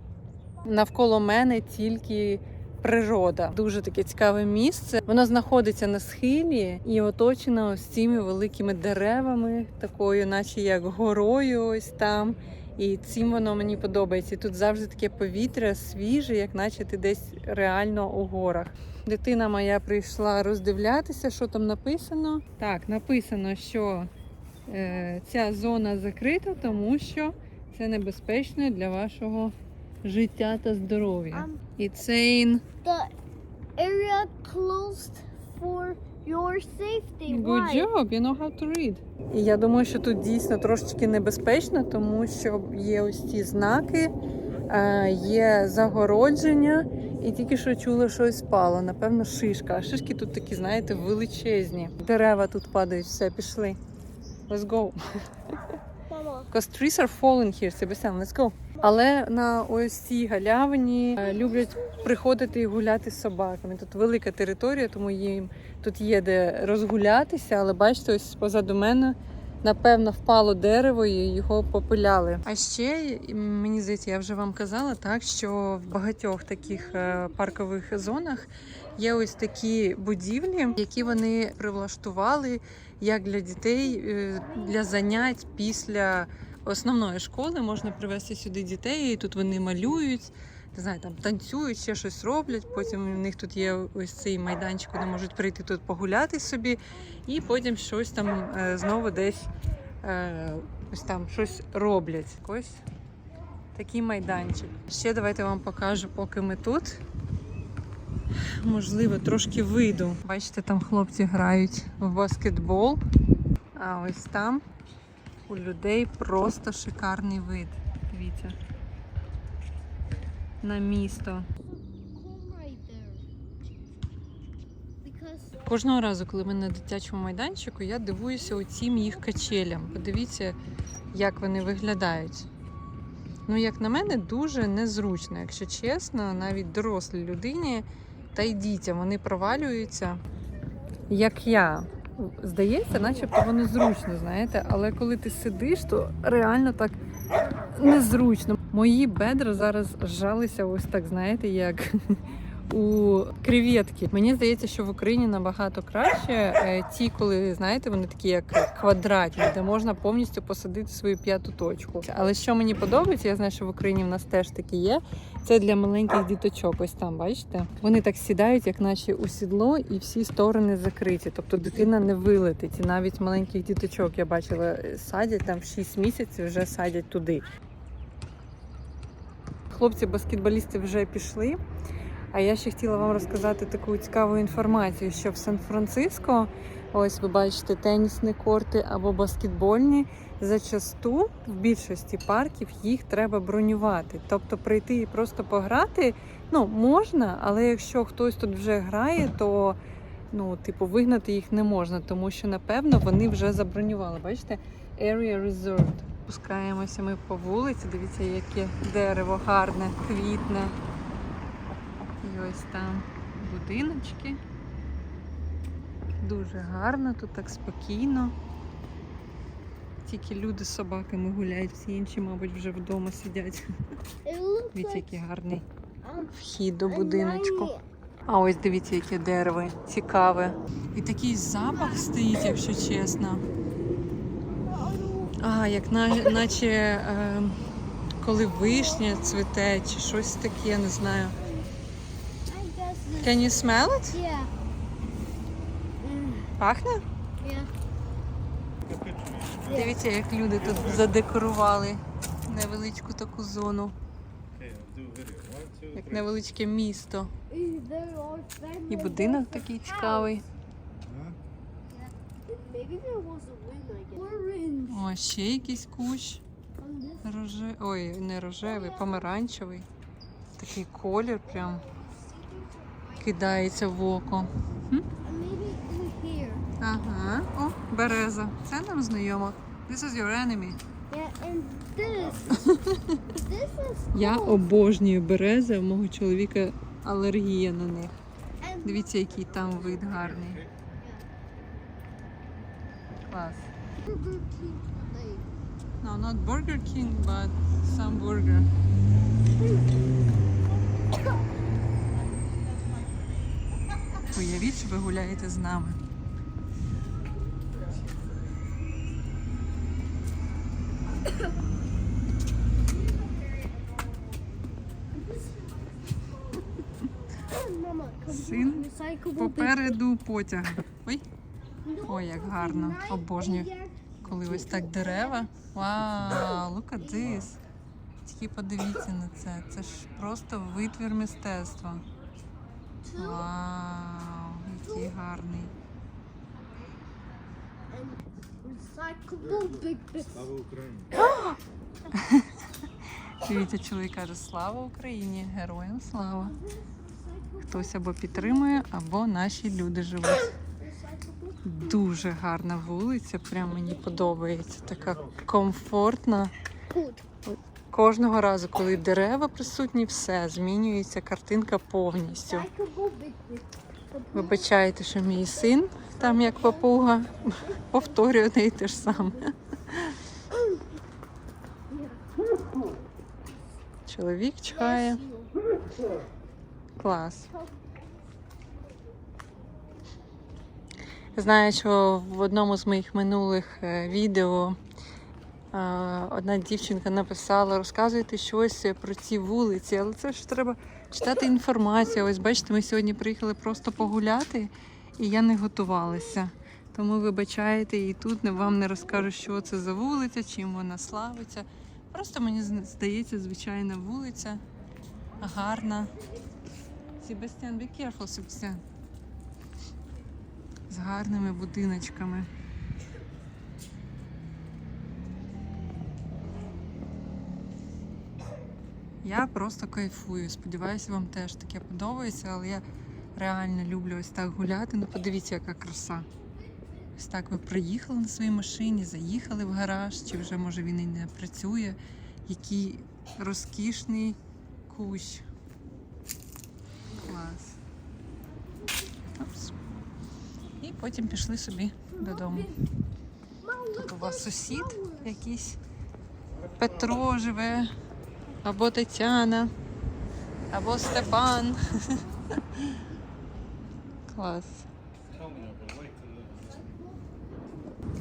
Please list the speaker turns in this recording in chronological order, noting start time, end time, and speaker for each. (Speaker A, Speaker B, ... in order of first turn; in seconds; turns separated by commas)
Speaker A: 0.6-24.1, Speaker A: 24.7-32.6, Speaker B: 31.3-31.6, Speaker B: 32.8-33.1, Speaker B: 33.8-37.9, Speaker A: 37.3-44.1, Speaker A: 44.7-53.8, Speaker A: 54.5-55.0, Speaker B: 56.1-56.5, Speaker A: 56.5-102.8, Speaker A: 103.7-107.0, Speaker A: 108.4-113.0, Speaker A: 113.8-114.6, Speaker A: 115.5-118.6, Speaker A: 120.6-121.5, Speaker B: 121.7-123.3, Speaker B: 125.0-125.7, Speaker A: 125.7-130.6, Speaker A: 131.1-132.5, Speaker A: 133.5-140.2, Speaker A: 141.1-147.0, Speaker A: 147.6-177.4, Speaker A: 179.7-181.6, Speaker A: 182.3-199.8, Speaker A: 200.3-210.8, Speaker A: 212.2-214.4, Speaker A: 216.2-218.3, Speaker A: 220.1-223.7, Speaker B: 224.2-225.2, Speaker A: 224.7-225.7, Speaker B: 226.0-226.3, Speaker A: 226.3-227.7, Speaker B: 226.9-227.8, Speaker A: 228.3-233.4, Speaker B: 234.6-235.4, Speaker A: 235.4-237.6, Speaker A: 238.2-241.4, Speaker B: 238.5-239.4, Speaker B: 241.4-241.7, Speaker B: 242.5-243.5, Speaker A: 243.2-244.2, Speaker B: 244.1-244.5, Speaker B: 246.0-246.5, Speaker A: 246.6-247.0, Speaker B: 247.4-247.7, Speaker C: 248.9-249.6, Speaker B: 249.7-250.0, Speaker A: 249.7-254.0, Speaker C: 254.6-256.0, Speaker A: 255.9-257.3, Speaker B: 257.5-260.4, Speaker A: 258.9-260.4, Speaker B: 262.1-265.1, Speaker A: 264.9-266.4, Speaker B: 266.8-267.2, Speaker A: 267.2-269.9, Speaker B: 268.6-269.3, Speaker A: 270.6-271.9, Speaker B: 271.5-273.4, Speaker A: 273.2-275.1, Speaker B: 275.2-276.7, Speaker A: 276.8-280.8, Speaker B: 281.1-282.6, Speaker A: 282.5-283.3, Speaker B: 283.3-284.7, Speaker A: 284.1-288.1, Speaker B: 288.6-289.4, Speaker A: 288.8-290.7, Speaker B: 291.0-291.3, Speaker A: 293.3-293.7, Speaker B: 294.1-295.5, Speaker A: 296.0-298.7, Speaker A: 304.2-306.0, Speaker B: 313.2-314.3, Speaker B: 315.2-316.8, Speaker B: 317.3-320.0, Speaker A: 318.3-321.2, Speaker B: 321.9-325.5, Speaker A: 322.0-327.6, Speaker B: 326.4-327.3, Speaker A: 328.2-332.1, Speaker B: 333.0-333.5, Speaker A: 333.2-335.7, Speaker B: 337.9-340.5, Speaker C: 340.4-341.1, Speaker A: 342.1-342.6, Speaker A: 343.4-346.6, Speaker B: 346.5-348.9, Speaker A: 347.7-350.5, Speaker B: 350.7-351.8, Speaker A: 351.6-356.5, Speaker B: 353.7-354.4, Speaker B: 356.9-357.2, Speaker A: 357.5-362.7, Speaker B: 362.3-364.8, Speaker A: 364.3-370.2, Speaker B: 365.9-367.1, Speaker B: 367.6-368.2, Speaker B: 370.5-370.8, Speaker B: 371.9-372.4, Speaker A: 374.1-375.2, Speaker B: 374.7-375.6, Speaker A: 377.0-377.5, Speaker B: 377.5-378.0, Speaker A: 381.3-384.8, Speaker A: 385.7-404.6, Speaker A: 405.4-406.1, Speaker A: 407.2-408.8, Speaker A: 410.9-412.5, Speaker A: 419.2-422.8, Speaker A: 423.4-426.3, Speaker A: 427.2-435.5, Speaker A: 437.2-437.8, Speaker A: 439.4-439.8, Speaker A: 440.8-442.8, Speaker B: 442.1-442.8, Speaker B: 443.6-445.4, Speaker A: 443.9-445.8, Speaker A: 446.8-447.9, Speaker A: 448.6-449.7, Speaker A: 450.7-453.0, Speaker A: 454.3-454.9, Speaker C: 455.4-456.8, Speaker B: 456.6-457.4